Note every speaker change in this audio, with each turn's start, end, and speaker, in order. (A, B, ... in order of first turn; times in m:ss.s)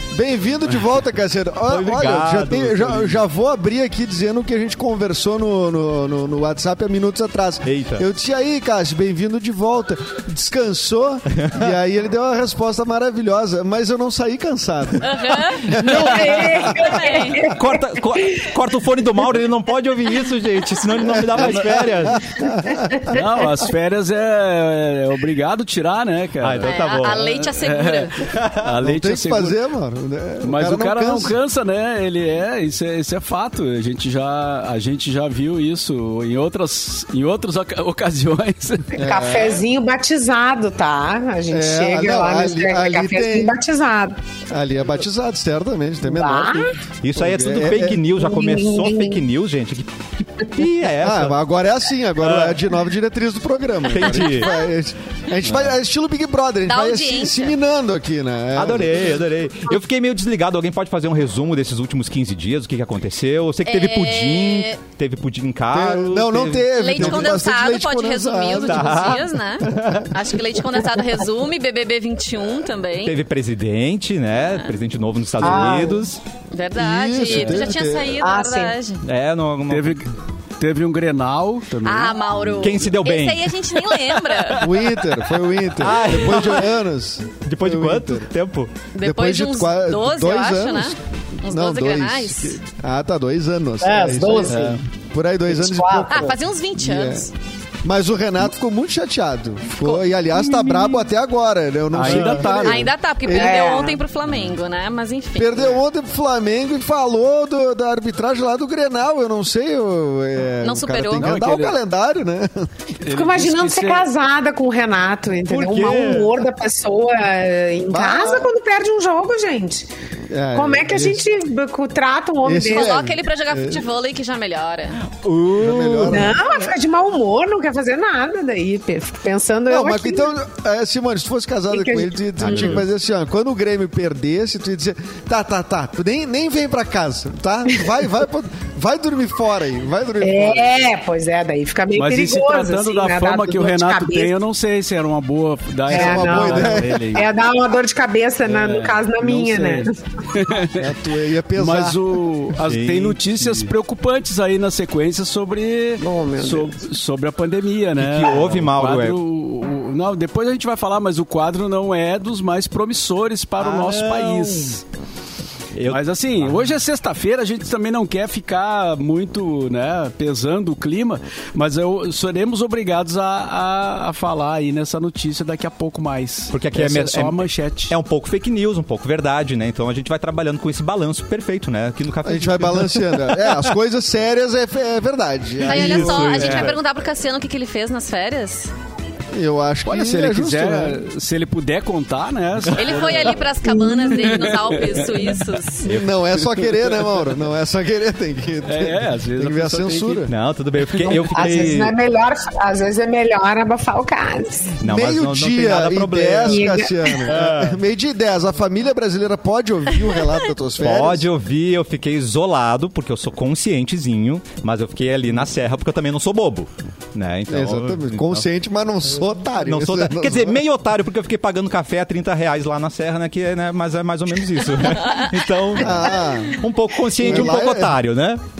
0:00.1-0:16.8 A
0:01.7-0:03.2 B
0:07.6-0:08.0 B
0:11.3-0:11.7 B
0:15.0-0:17.5 C
0:15.7-0:18.4 D
0:17.4-0:22.3 B
0:21.0-0:23.2 A
0:22.5-0:23.2 D
0:23.1-0:29.6 E
0:26.4-0:27.3 B
0:26.6-0:28.2 C
0:28.2-0:28.7 B
0:28.8-0:31.4 A
0:30.4-0:39.0 E
0:38.9-0:44.2 D
0:39.0-0:39.6 A
0:41.5-0:43.6 A
0:44.5-0:48.1 A
0:46.0-0:46.8 D
0:47.0-0:51.4 B
0:48.2-0:49.2 D
0:51.0-0:59.1 A
0:52.2-0:52.6 B
0:53.9-0:54.5 B
0:56.6-0:57.6 C
0:58.5-1:07.4 B
1:03.6-1:04.8 C
1:05.7-1:10.1 A
1:06.7-1:13.2 C
1:08.6-1:10.1 B
1:13.0-1:16.2 B
1:15.4-1:16.0 D
1:16.5-1:19.0 C
1:16.8-1:18.2 A
1:17.3-1:17.7 E
1:18.2-1:18.8 D
1:19.0-1:20.0 B
1:19.7-1:22.2 E
1:21.8-1:22.1 A
1:21.8-1:24.7 C
1:22.6-1:24.1 B
1:24.6-1:28.3 A
1:25.7-1:26.7 B
1:27.4-1:28.7 B
1:28.9-1:32.6 C
1:29.0-1:37.3 A
1:33.8-1:34.6 D
1:34.4-1:34.8 E
1:35.5-1:36.4 D
1:36.1-1:37.3 C
1:37.8-1:43.7 A
1:41.9-1:42.9 E
1:42.1-1:42.4 B
1:42.4-1:45.8 C
1:43.3-1:44.0 D
1:45.4-1:52.7 A
1:50.6-1:51.3 C
1:51.2-1:51.8 E
1:53.0-1:54.1 E
1:53.1-1:59.9 D
1:55.4-1:56.3 B
1:57.9-1:58.5 A
2:00.3-2:01.2 A
2:00.5-2:03.0 D
2:02.4-2:03.9 A
2:02.7-2:05.0 C
2:05.1-2:06.3 B
2:05.6-2:06.5 A
2:06.0-2:10.3 D
2:09.7-2:20.9 A
2:11.7-2:12.8 D
2:12.4-2:12.8 B
2:20.2-2:24.3 D
2:21.9-2:27.3 E
2:25.9-2:27.2 A
2:25.9-2:29.9 D
2:28.4-2:30.9 E
2:30.7-2:32.0 A
2:31.5-2:44.8 E
2:32.6-2:33.7 B
2:36.0-2:36.8 D
2:38.0-2:39.2 B
2:43.6-2:44.7 B
2:45.7-2:46.7 B
2:45.9-2:57.9 E
2:56.5-3:03.6 B
3:02.2-3:06.6 A
3:05.6-3:08.7 C
3:05.7-3:06.8 B
3:05.8-3:06.7 E
3:09.3-3:11.0 A
3:09.9-3:15.4 E
3:12.7-3:15.8 C
3:13.6-3:14.4 D
3:15.8-3:20.3 A
3:15.8-3:16.1 B
3:16.7-3:17.3 E
3:18.6-3:20.3 E
3:20.3-3:22.0 B
3:20.8-3:21.2 E
3:21.1-3:24.8 D
3:24.8-3:27.8 B
3:24.8-3:31.3 A
3:26.4-3:27.3 D
3:30.8-3:38.4 B
3:37.5-3:40.6 A
3:39.6-3:48.4 B
3:45.0-3:45.3 C
3:45.8-3:46.6 A
3:47.2-3:48.0 A